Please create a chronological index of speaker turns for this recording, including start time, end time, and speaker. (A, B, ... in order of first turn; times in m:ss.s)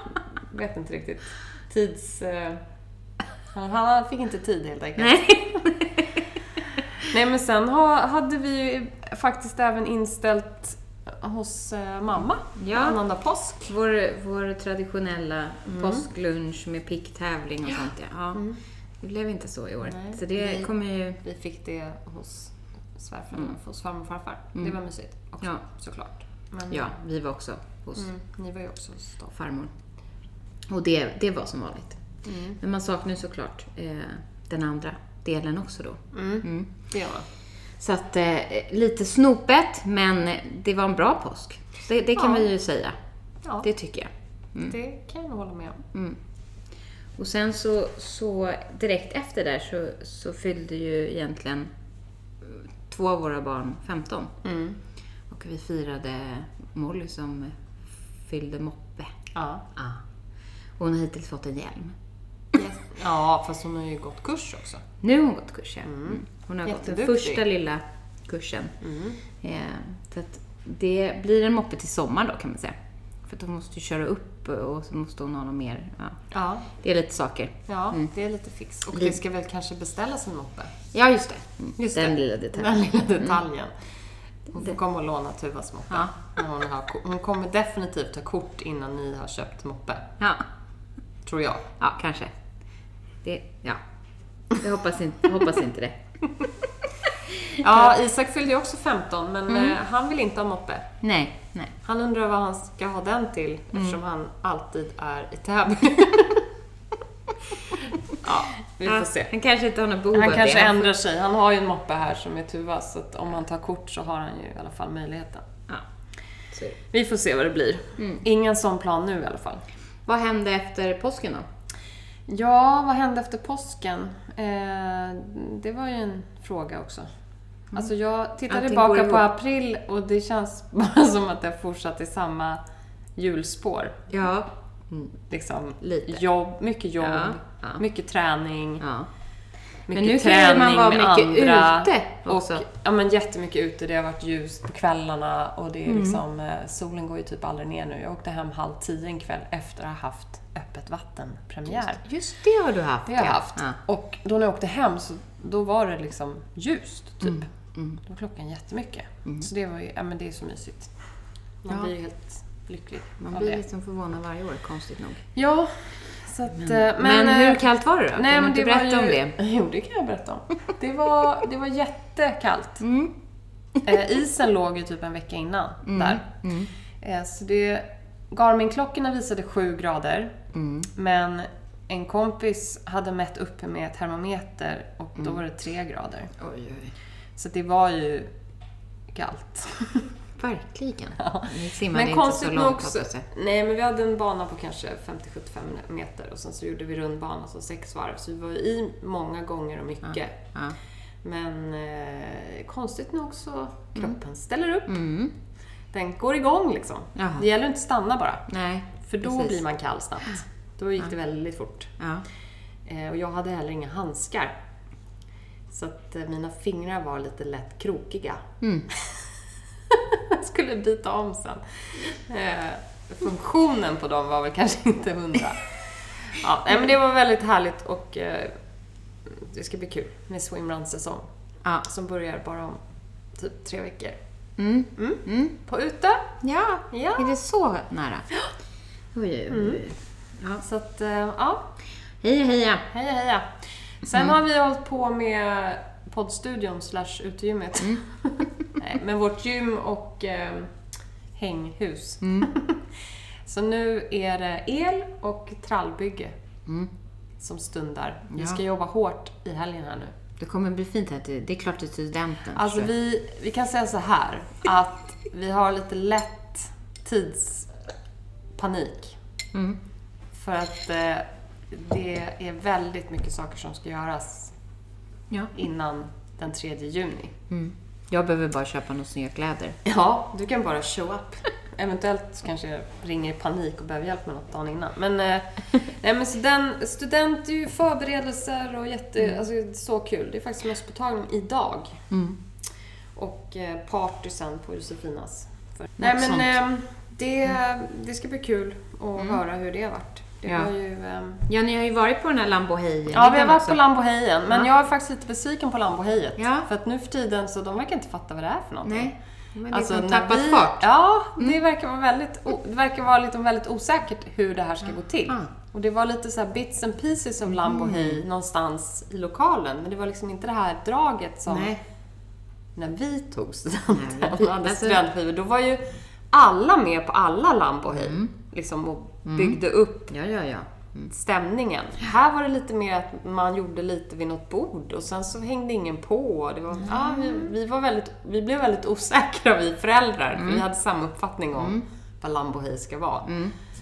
0:00.5-0:02.6 A
0:03.5-0:05.6 A
0:05.0-0:06.2 B
0:07.1-0:13.7 A
0:12.6-0:13.0 B
0:13.7-0:18.4 B
0:15.7-0:16.0 A
0:19.0-0:21.2 B
0:19.8-0:20.7 A
0:21.2-0:26.9 A
0:26.7-0:28.1 B
0:28.0-0:29.3 A
0:29.3-0:29.7 B
0:30.7-0:32.0 B
0:32.2-0:32.6 A
0:32.6-0:36.7 B
0:36.1-0:37.2 A
0:37.8-0:43.0 B
0:42.2-0:42.4 A
0:43.6-0:44.8 B
0:44.7-0:45.8 A
0:45.9-0:46.2 B
0:47.2-0:51.7 B
0:52.4-0:54.3 B
0:54.4-0:54.8 A
0:55.3-0:57.6 B
0:58.2-0:59.1 B
0:59.3-0:59.6 A
0:59.8-1:00.0 B
1:00.8-1:02.0 B
1:02.6-1:04.8 A
1:05.0-1:08.8 B
1:05.8-1:07.4 A
1:08.8-1:09.2 A
1:09.3-1:12.8 B
1:13.2-1:16.2 B
1:16.3-1:16.7 A
1:16.8-1:18.1 B
1:17.7-1:20.7 A
1:18.9-1:19.2 B
1:20.9-1:23.4 B
1:21.8-1:23.7 A
1:24.5-1:30.1 A
1:31.2-1:31.7 A
1:31.8-1:32.3 B
1:33.2-1:33.8 B
1:34.5-1:36.0 B
1:37.5-1:37.9 B
1:37.6-1:41.0 A
1:39.5-1:39.8 B
1:41.0-1:41.7 B
1:41.8-1:46.4 A
1:43.7-1:44.0 B
1:48.2-1:49.3 A
1:48.8-1:50.9 B
1:50.1-1:55.4 A
1:56.5-1:56.8 B
1:56.9-1:59.6 A
1:58.0-1:58.2 B
2:00.1-2:01.5 B
2:02.3-2:07.1 A
2:07.7-2:12.6 A
2:08.5-2:09.2 B
2:13.2-2:14.0 A
2:14.1-2:15.2 B
2:15.3-2:18.8 A
2:15.8-2:16.2 B
2:17.0-2:17.8 B
2:18.8-2:19.1 B
2:19.9-2:32.0 A
2:19.9-2:22.6 B
2:25.9-2:26.2 B
2:32.0-2:33.8 B
2:33.1-2:37.5 A
2:37.2-2:38.0 B
2:38.0-2:40.9 A
2:41.6-2:43.6 A
2:43.2-2:45.2 B
2:45.4-2:52.8 A
2:46.5-2:49.3 B
2:52.8-2:53.1 B
2:53.8-2:56.3 A
2:55.8-2:56.7 B
2:57.0-3:00.4 A
3:00.5-3:00.9 B
3:00.9-3:06.3 A
3:06.4-3:06.9 B
3:07.4-3:08.3 A
3:09.1-3:10.1 A
3:10.4-3:13.2 B
3:11.2-3:20.4 A
3:20.0-3:20.8 B
3:21.2-3:24.9 A
3:24.8-3:25.3 B
3:25.9-3:28.5 A
3:27.2-3:27.4 B
3:28.5-3:29.6 B
3:29.0-3:31.9 A
3:32.0-3:32.2 B
3:32.8-3:34.6 A
3:35.7-3:39.2 A
3:38.6-3:38.9 B
3:39.9-3:48.6 A
3:49.2-3:51.2 A
3:51.8-3:52.8 A
3:53.3-3:54.2 A
3:54.6-3:55.5 B
3:55.0-3:56.3 A
3:56.4-3:58.3 B
3:56.9-3:57.3 A
3:59.1-4:00.6 B
3:59.5-3:59.8 A
4:00.6-4:01.7 A
4:02.2-4:02.9 B
4:02.9-4:10.7 A
4:11.3-4:12.8 A
4:12.2-4:12.5 B
4:13.4-4:16.3 A
4:17.4-4:20.1 A
4:18.3-4:18.6 B
4:20.4-4:22.9 B
4:22.5-4:27.7 A
4:28.6-4:29.2 A
4:29.5-4:29.8 B
4:30.4-4:34.5 A
4:35.5-4:37.3 A
4:37.5-4:39.8 B
4:39.8-4:52.0 A
4:52.1-4:52.4 B
4:53.1-5:01.4 A
4:56.0-4:56.5 B
5:00.4-5:00.7 B
5:01.5-5:03.8 B
5:03.1-5:09.1 A
5:06.4-5:06.7 B
5:08.8-5:11.6 B
5:09.7-5:21.8 A
5:17.5-5:18.2 B
5:21.5-5:21.8 B
5:22.8-5:30.1 A
5:23.9-5:25.0 B
5:27.9-5:28.3 B
5:29.2-5:31.1 B
5:31.1-5:43.3 A
5:36.8-5:37.5 B
5:40.4-5:40.6 B
5:41.6-5:41.8 B
5:43.2-5:43.5 B